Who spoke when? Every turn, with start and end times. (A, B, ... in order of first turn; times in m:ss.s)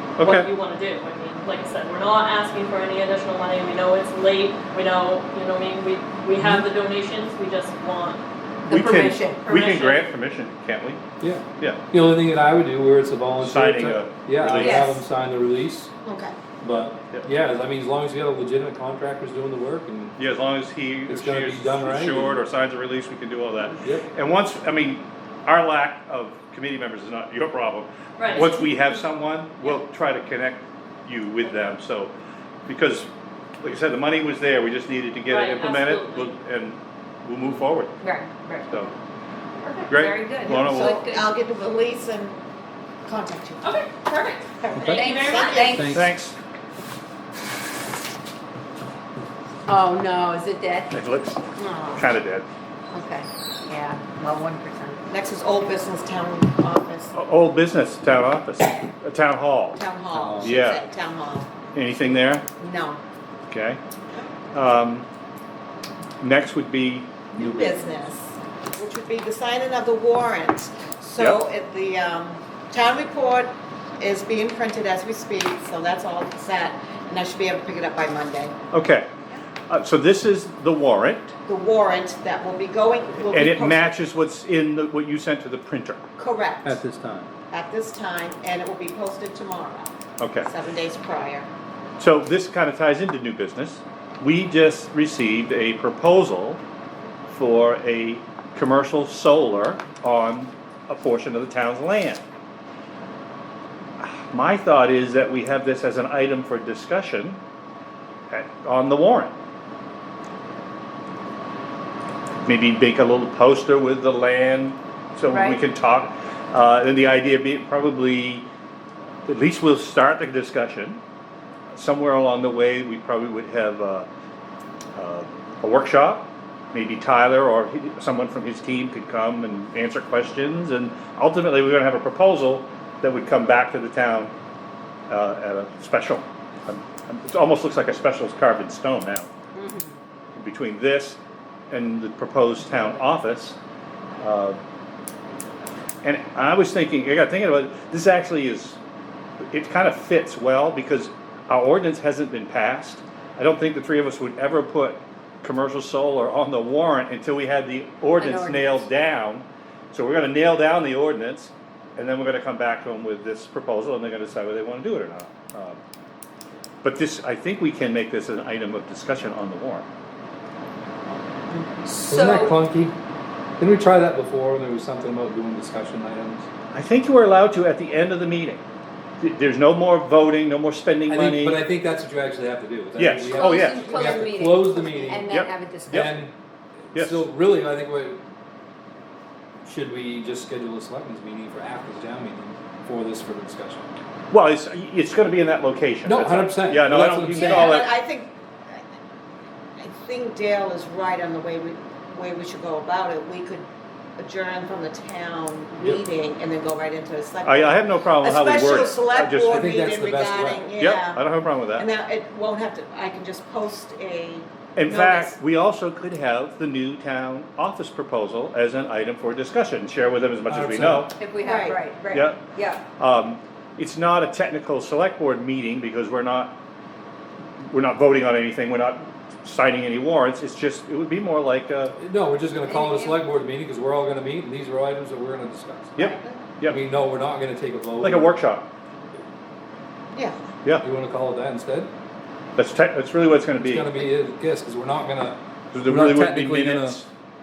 0:00.2-0:00.5 A
0:00.2-0:10.1 B
0:08.7-0:09.4 C
0:08.7-0:11.0 A
0:11.2-0:15.9 D
0:13.4-0:14.9 A
0:14.5-0:15.0 E
0:16.0-0:16.3 E
0:16.6-0:20.2 D
0:20.2-0:32.1 A
0:21.1-0:22.4 D
0:23.8-0:24.0 D
0:28.2-0:28.9 B
0:32.7-0:33.1 A
0:33.6-0:38.0 A
0:35.3-0:36.3 B
0:38.0-0:38.7 C
0:38.7-0:38.9 A
0:39.6-0:41.3 C
0:39.9-0:41.0 A
0:40.4-0:42.4 E
0:43.0-0:45.9 E
0:43.6-0:45.7 B
0:44.8-0:46.0 C
0:45.7-0:46.1 D
0:45.9-0:46.4 A
0:49.7-0:50.9 C
0:50.9-0:52.4 A
0:51.6-0:52.0 E
0:52.9-0:55.0 C
0:55.1-0:57.2 E
0:57.1-0:59.8 A
0:59.7-1:01.5 E
1:00.1-1:00.5 D
1:00.4-1:00.8 A
1:01.7-1:02.4 A
1:02.6-1:03.0 E
1:03.5-1:03.8 A
1:04.5-1:05.1 A
1:06.2-1:07.1 A
1:07.3-1:18.5 E
1:07.4-1:07.8 D
1:18.7-1:19.1 A
1:19.7-1:21.3 A
1:21.4-1:23.9 E
1:23.3-1:26.0 A
1:26.2-1:26.8 E
1:26.6-1:27.3 D
1:27.5-1:31.5 E
1:30.2-1:30.5 A
1:32.0-1:36.6 A
1:37.3-1:42.2 A
1:44.0-1:47.4 A
1:48.3-1:49.4 A
1:52.4-1:58.4 A
1:55.3-1:55.6 C
1:59.2-2:01.0 A
2:01.7-2:04.1 A
2:05.0-2:14.3 A
2:15.1-2:19.3 A
2:19.6-2:19.9 C
2:20.4-2:21.2 A
2:21.7-2:23.6 A
2:24.2-2:24.6 A
2:26.0-2:28.8 A
2:29.5-2:45.8 A
2:38.2-2:38.9 C
2:46.8-2:49.9 A
2:51.8-2:53.0 D
2:52.1-2:52.6 C
2:53.6-2:56.5 D
2:56.7-2:58.6 A
2:59.2-3:01.6 A
3:01.1-3:05.4 D
3:03.0-3:04.2 A
3:03.3-3:06.1 C
3:05.3-3:06.1 A
3:05.9-3:06.3 D
3:06.9-3:08.2 D
3:06.9-3:07.2 A
3:09.6-3:13.8 D
3:14.3-3:17.9 A
3:16.0-3:17.8 D
3:17.3-3:18.3 E
3:19.8-3:23.6 E
3:24.2-3:31.2 E
3:27.4-3:29.7 A
3:29.5-3:30.6 D
3:30.8-3:31.9 A
3:31.7-3:35.4 E
3:34.8-3:41.2 A
3:40.5-3:41.1 D
3:41.2-3:42.8 C
3:41.4-3:41.8 E
3:42.1-3:42.4 A
3:43.0-3:46.6 A
3:47.7-3:52.0 A
3:52.0-3:56.1 D
3:52.6-3:53.3 C
3:56.0-3:56.8 A
3:56.6-3:58.4 D
3:58.0-3:58.7 A
4:00.8-4:01.9 D
4:02.6-4:03.9 A
4:03.6-4:07.0 D
4:05.7-4:07.1 A